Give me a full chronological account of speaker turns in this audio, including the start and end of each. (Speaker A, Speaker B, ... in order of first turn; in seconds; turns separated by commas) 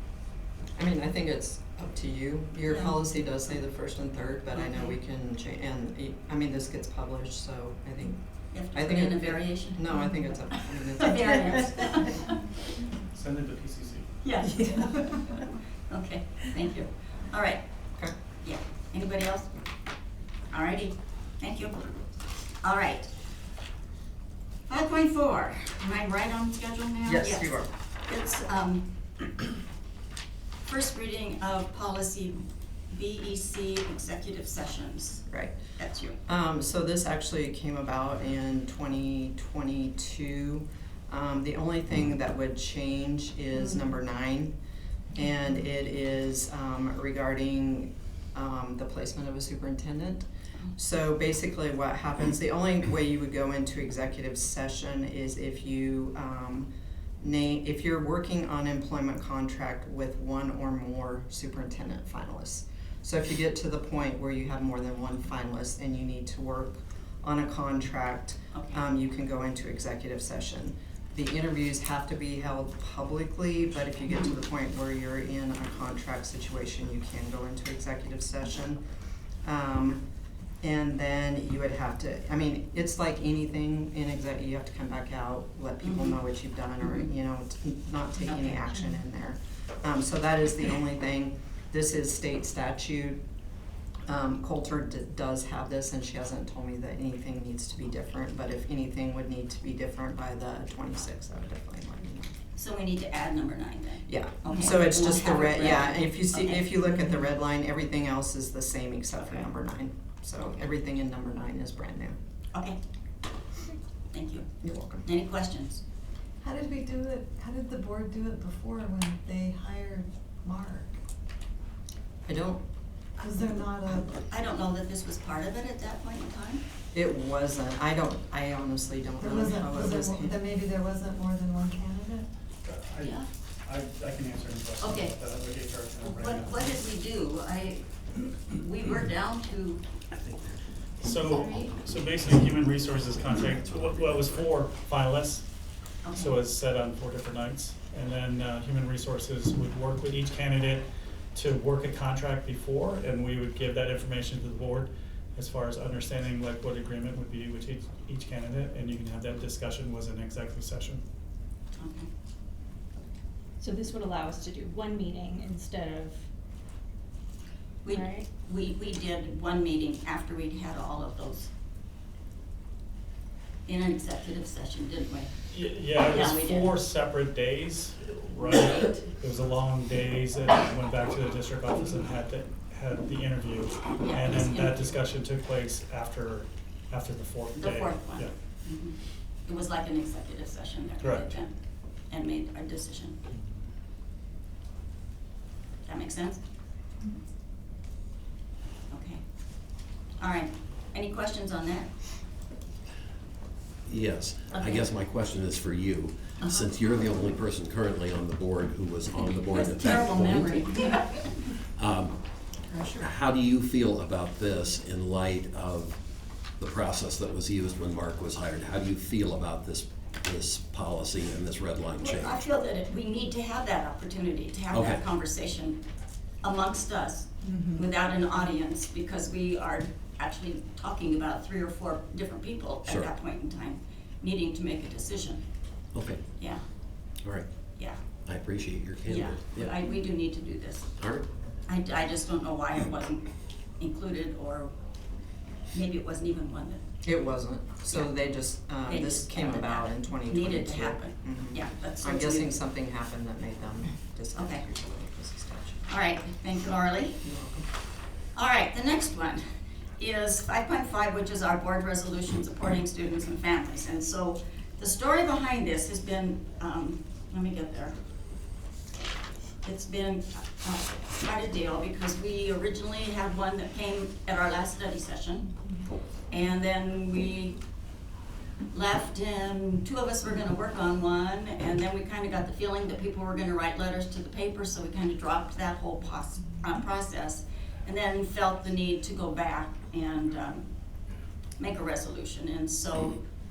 Speaker A: 0.8-12.0, Speaker B: 2.7-3.0, Speaker B: 4.5-4.9, Speaker B: 8.5-12.4, Speaker C: 13.1-14.1, Speaker B: 14.2-17.6, Speaker D: 14.7-15.1, Speaker B: 18.4-19.5, Speaker B: 20.5-21.8, Speaker B: 22.6-23.1, Speaker B: 24.7-29.5, Speaker A: 27.1-27.7, Speaker B: 30.6-36.2, Speaker A: 35.3-35.6, Speaker A: 36.3-44.5, Speaker A: 45.1-56.7, Speaker A: 57.2-78.8, Speaker B: 68.5-68.8, Speaker A: 79.4-80.0, Speaker A: 80.6-93.2, Speaker B: 85.8-86.2, Speaker B: 88.3-88.7, Speaker A: 94.1-102.3, Speaker B: 102.6-107.0, Speaker A: 104.1-112.2, Speaker B: 109.2-109.5, Speaker B: 114.1-114.5, Speaker A: 114.6-115.0, Speaker B: 115.0-115.8, Speaker D: 116.4-121.0, Speaker A: 122.3-122.6, Speaker D: 123.2-124.1, Speaker B: 124.1-126.6, Speaker A: 126.9-130.4, Speaker D: 129.2-132.3, Speaker C: 132.7-136.8, Speaker B: 133.0-133.3, Speaker B: 134.8-135.2, Speaker B: 136.0-139.8, Speaker C: 141.0-145.5, Speaker B: 141.2-141.7, Speaker B: 146.0-146.4, Speaker C: 146.2-161.0, Speaker B: 161.8-162.1, Speaker E: 163.6-166.2, Speaker B: 167.8-171.5, Speaker E: 167.9-168.3, Speaker B: 173.7-175.3, Speaker C: 175.5-188.3, Speaker B: 176.0-176.7, Speaker B: 184.0-184.9, Speaker B: 187.6-191.5, Speaker C: 191.0-191.4, Speaker B: 192.1-193.2, Speaker B: 195.8-196.4, Speaker B: 198.9-199.2, Speaker B: 200.2-201.9, Speaker F: 203.9-210.8, Speaker B: 204.5-204.8, Speaker B: 206.4-206.7, Speaker B: 209.5-211.4, Speaker F: 211.8-212.2, Speaker F: 213.0-216.0, Speaker F: 216.6-222.4, Speaker B: 222.0-225.8, Speaker F: 224.7-225.0, Speaker B: 226.4-235.4, Speaker D: 227.5-227.8, Speaker F: 232.8-233.1, Speaker F: 235.9-236.2, Speaker F: 238.3-239.8, Speaker B: 239.1-240.9, Speaker F: 241.0-241.3, Speaker B: 241.7-243.3, Speaker B: 243.8-244.7, Speaker B: 245.7-246.8, Speaker A: 247.1-255.9, Speaker B: 248.8-252.5, Speaker B: 254.4-254.6, Speaker B: 255.9-257.2, Speaker A: 257.2-257.7, Speaker B: 258.4-259.4, Speaker B: 260.0-267.9, Speaker B: 269.6-275.5, Speaker B: 276.3-277.6, Speaker B: 278.7-290.7, Speaker B: 291.6-293.2